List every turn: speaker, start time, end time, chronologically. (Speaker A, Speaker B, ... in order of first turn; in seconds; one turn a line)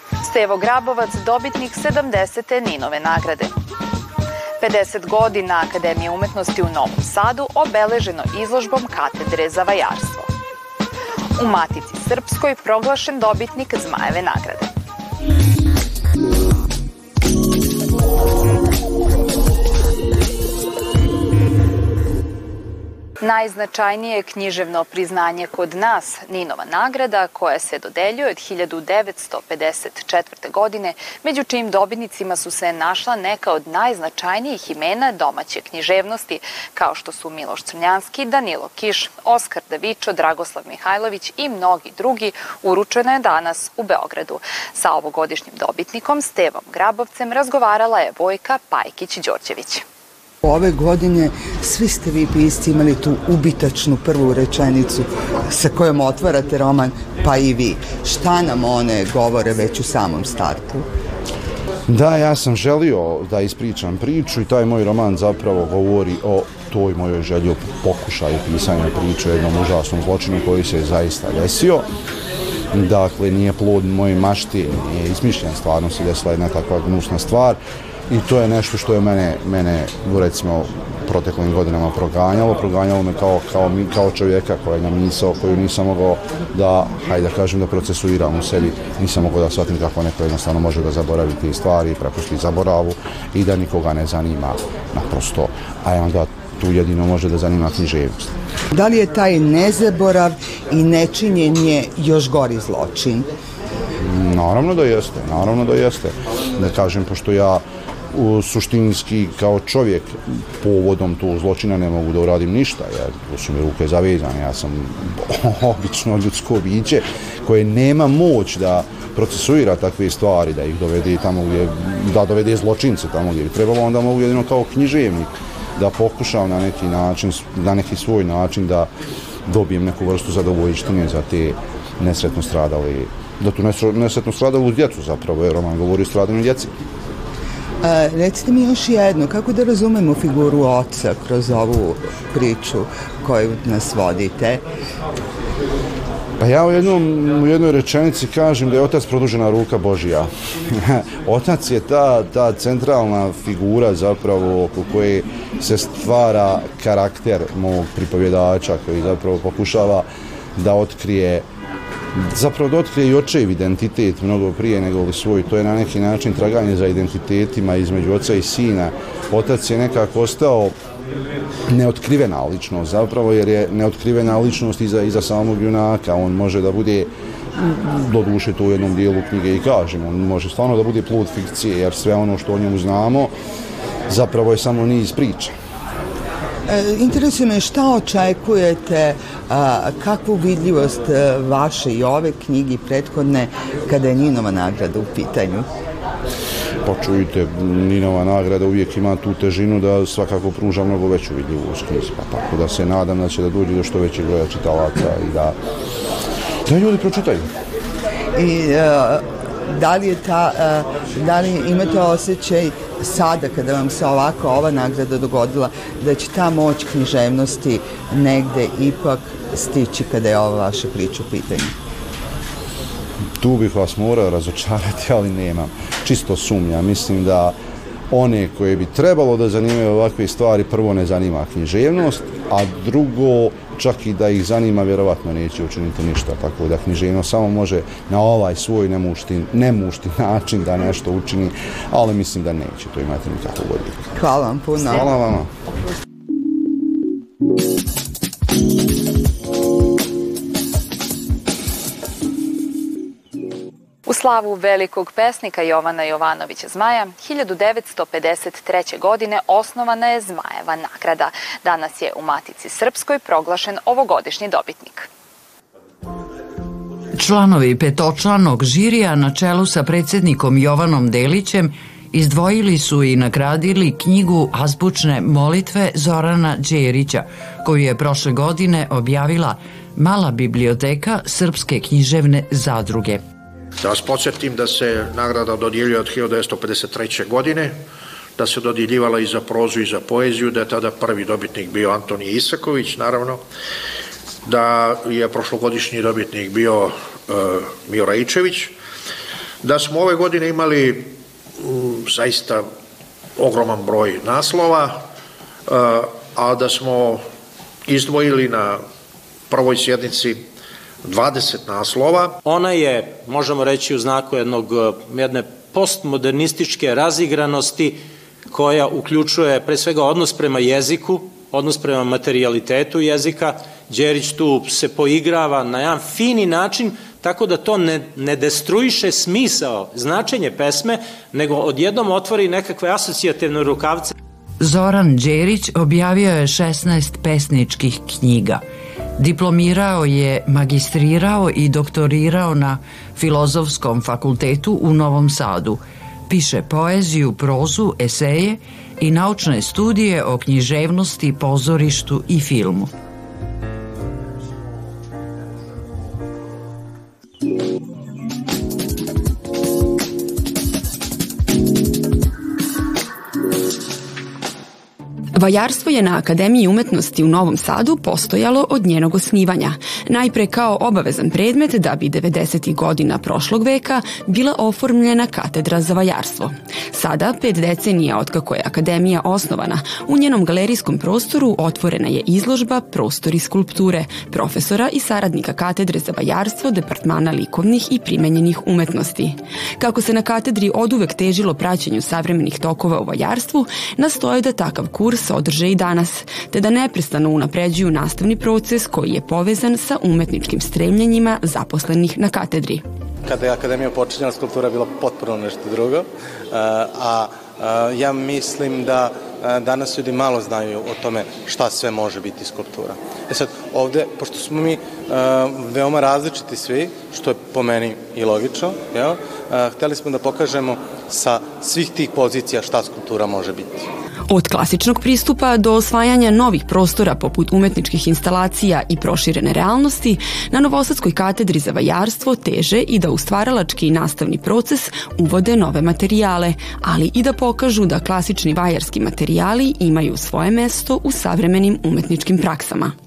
Speaker A: 0.2-3.5
Speaker A: 4.6-10.3
Speaker A: 11.3-14.7
Speaker A: 23.2-49.8
Speaker B: 50.4-60.9
Speaker C: 61.9-71.9
Speaker C: 72.7-98.3
Speaker B: 98.7-103.3
Speaker C: 104.0-128.9
Speaker C: 129.5-136.7
Speaker B: 137.8-144.6
Speaker C: 146.4-161.4
Speaker C: 162.1-170.7
Speaker C: 171.7-183.3
Speaker C: 184.1-185.5
Speaker B: 186.7-195.7
Speaker C: 196.8-205.5
Speaker C: 206.7-207.5
Speaker B: 208.3-221.7
Speaker C: 223.4-227.5
Speaker C: 228.1-244.1
Speaker B: 244.2-245.1
Speaker C: 244.8-245.5
Speaker A: 254.1-265.1
Speaker D: 267.1-283.2
Speaker E: 283.9-287.7
Speaker E: 288.4-293.3
Speaker E: 294.5-298.7
Speaker E: 299.7-301.1
Speaker E: 302.2-302.5
Speaker E: 303.4-304.9
Speaker E: 306.4-307.2
Speaker E: 307.9-308.7
Speaker E: 309.5-310.3
Speaker E: 311.1-312.3
Speaker F: 312.4-334.1
Speaker D: 334.6-338.6
Speaker D: 339.2-352.9
Speaker G: 365.3-402.8
Speaker H: 403.2-423.9
Speaker G: 424.3-442.9